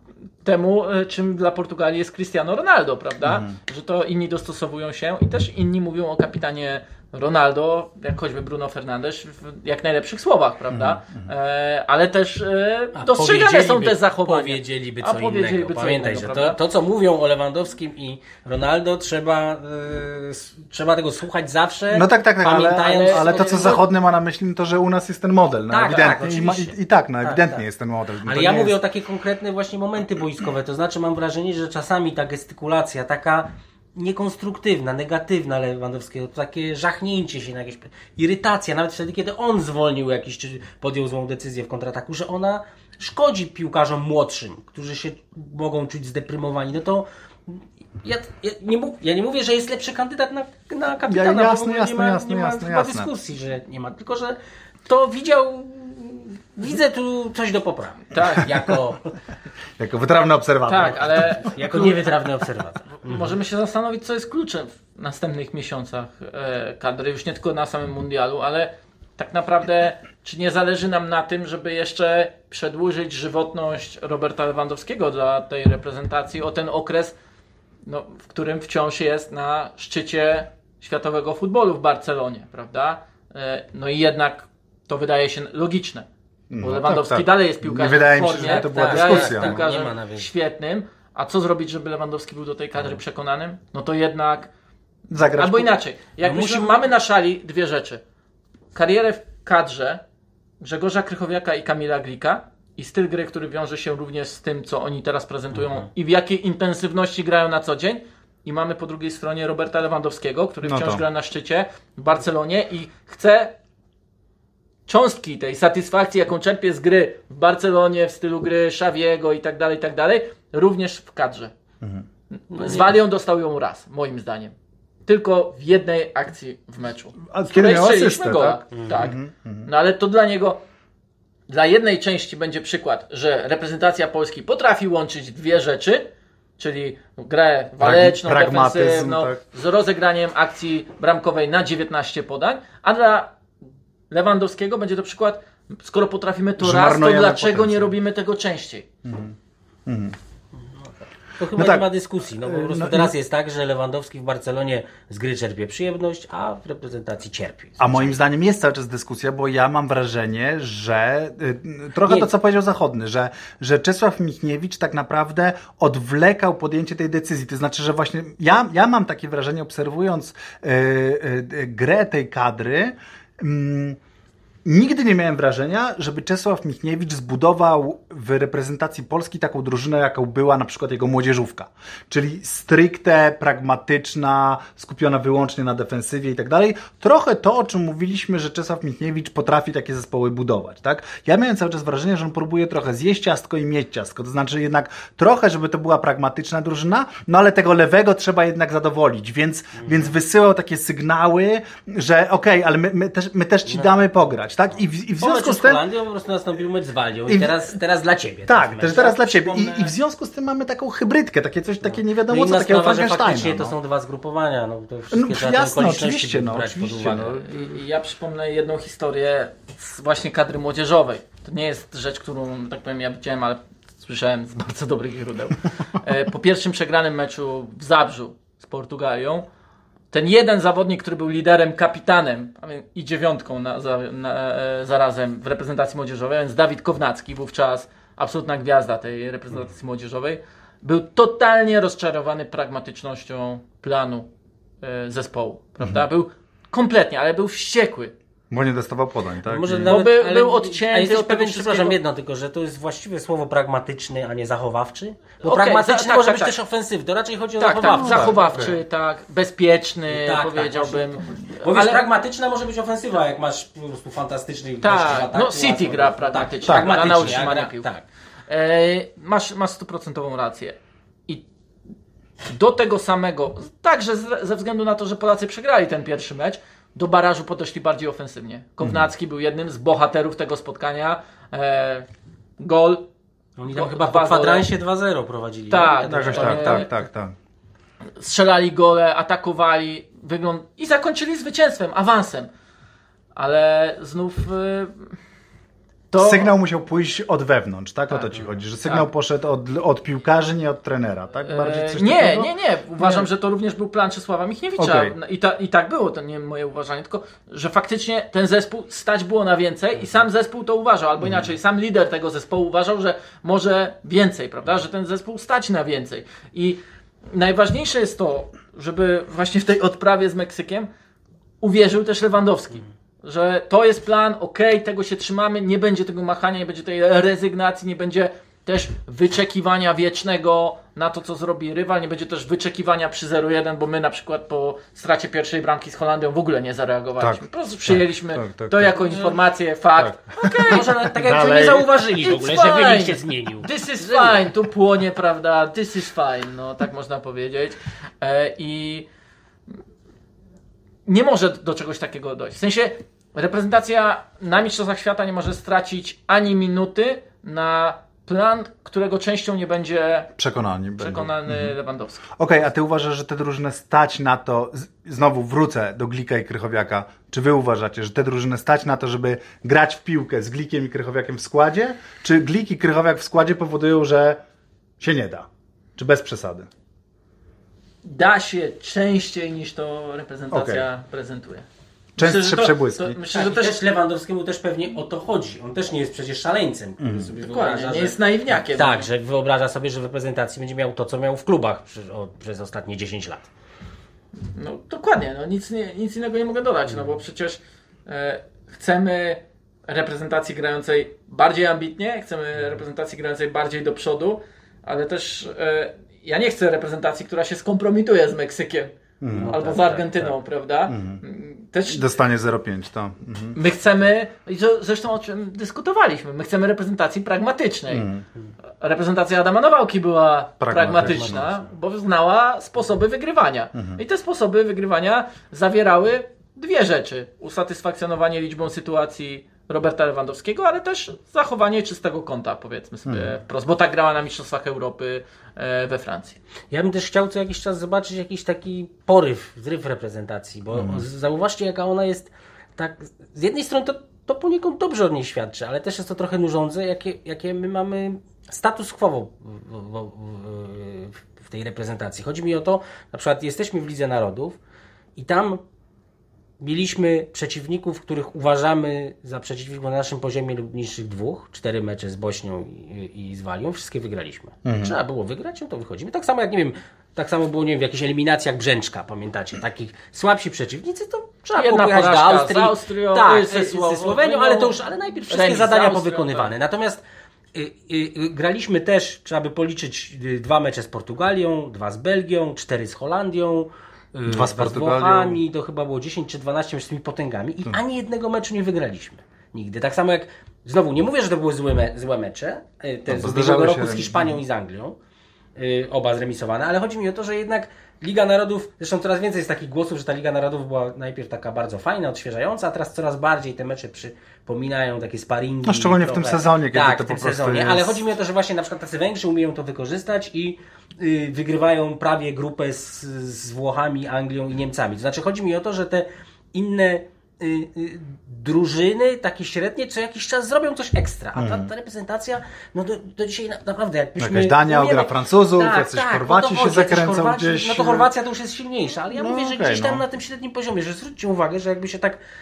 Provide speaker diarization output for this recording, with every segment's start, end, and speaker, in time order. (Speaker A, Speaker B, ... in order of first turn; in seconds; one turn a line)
Speaker A: 0.4-16.6
Speaker B: 3.2-3.6
Speaker B: 10.7-11.2
Speaker C: 12.9-23.8
Speaker B: 21.9-28.8
Speaker A: 22.8-23.8
Speaker C: 25.7-27.6
Speaker C: 28.2-59.1
Speaker B: 51.1-53.1
Speaker A: 58.1-58.7
Speaker B: 58.4-58.8
Speaker B: 59.8-61.4
Speaker A: 60.7-62.1
Speaker C: 61.4-63.4
Speaker A: 63.1-77.1
Speaker A: 77.8-86.1
Speaker B: 86.5-89.6
Speaker A: 86.6-94.5
Speaker C: 88.2-90.3
Speaker B: 95.1-95.7
Speaker A: 95.2-98.0
Speaker C: 96.2-96.8
Speaker A: 98.8-100.0
Speaker A: 100.6-113.5
Speaker B: 110.6-111.0
Speaker A: 114.9-121.5
Speaker C: 122.5-122.9
Speaker A: 122.5-124.5
Speaker A: 125.1-130.6
Speaker B: 127.3-129.7
Speaker A: 131.5-136.1
Speaker A: 136.6-143.3
Speaker B: 137.8-139.4
Speaker A: 144.1-148.9
Speaker B: 146.6-147.9
Speaker B: 149.0-150.2
Speaker C: 150.6-158.2
Speaker B: 151.5-151.9
Speaker B: 152.4-153.1
Speaker B: 157.8-174.0
Speaker C: 162.1-162.3
Speaker B: 174.6-205.8
Speaker C: 203.7-204.1
Speaker C: 205.2-209.1
Speaker B: 207.3-207.7
Speaker B: 208.5-213.8
Speaker A: 208.9-209.9
Speaker C: 211.9-217.4
Speaker B: 215.1-217.7
Speaker A: 217.3-229.5
Speaker A: 230.1-244.3
Speaker A: 244.8-248.1
Speaker B: 248.5-250.0
Speaker C: 249.5-258.6
Speaker A: 249.9-252.0
Speaker A: 255.4-256.6
Speaker A: 257.6-262.1
Speaker B: 257.8-258.8
Speaker C: 260.1-268.1
Speaker A: 264.8-267.9
Speaker B: 266.6-267.5
Speaker A: 268.5-270.8
Speaker A: 272.5-282.1
Speaker B: 278.8-279.1
Speaker A: 282.6-283.1
Speaker C: 283.6-286.9
Speaker A: 283.7-284.7
Speaker A: 285.7-286.9
Speaker B: 286.1-287.4
Speaker A: 288.2-292.5
Speaker A: 293.4-295.1
Speaker A: 296.1-296.5
Speaker B: 296.2-303.3
Speaker A: 301.5-316.8
Speaker B: 304.8-305.1
Speaker B: 311.2-311.5
Speaker A: 317.3-320.9
Speaker A: 321.6-340.9
Speaker B: 337.2-339.0
Speaker C: 339.1-339.3
Speaker B: 340.0-341.9
Speaker C: 340.4-344.5
Speaker A: 342.1-349.1
Speaker A: 351.1-360.3
Speaker B: 360.4-361.8
Speaker A: 361.0-362.3
Speaker B: 362.4-374.4
Speaker B: 375.0-376.7
Speaker A: 378.0-381.6
Speaker B: 380.5-380.9
Speaker B: 382.2-383.2
Speaker A: 382.2-383.8
Speaker C: 383.3-393.5
Speaker B: 387.0-387.3
Speaker A: 387.4-389.1
Speaker A: 394.5-408.9
Speaker B: 409.2-409.5
Speaker C: 409.3-410.4
Speaker A: 409.5-412.1
Speaker B: 410.9-411.2
Speaker B: 411.9-413.6
Speaker A: 413.6-418.1
Speaker B: 417.9-418.2
Speaker A: 418.8-436.4
Speaker B: 420.6-421.4
Speaker C: 420.9-421.6
Speaker B: 433.1-433.4
Speaker C: 436.7-454.6
Speaker B: 440.8-441.0
Speaker C: 455.1-455.6
Speaker C: 456.6-477.0
Speaker B: 464.6-464.9
Speaker A: 471.6-474.8
Speaker A: 475.3-476.5
Speaker C: 477.5-495.0
Speaker B: 484.3-485.4
Speaker B: 493.1-494.4
Speaker C: 495.6-532.2
Speaker B: 505.6-508.0
Speaker B: 521.4-521.7
Speaker B: 524.2-528.1
Speaker B: 529.1-530.0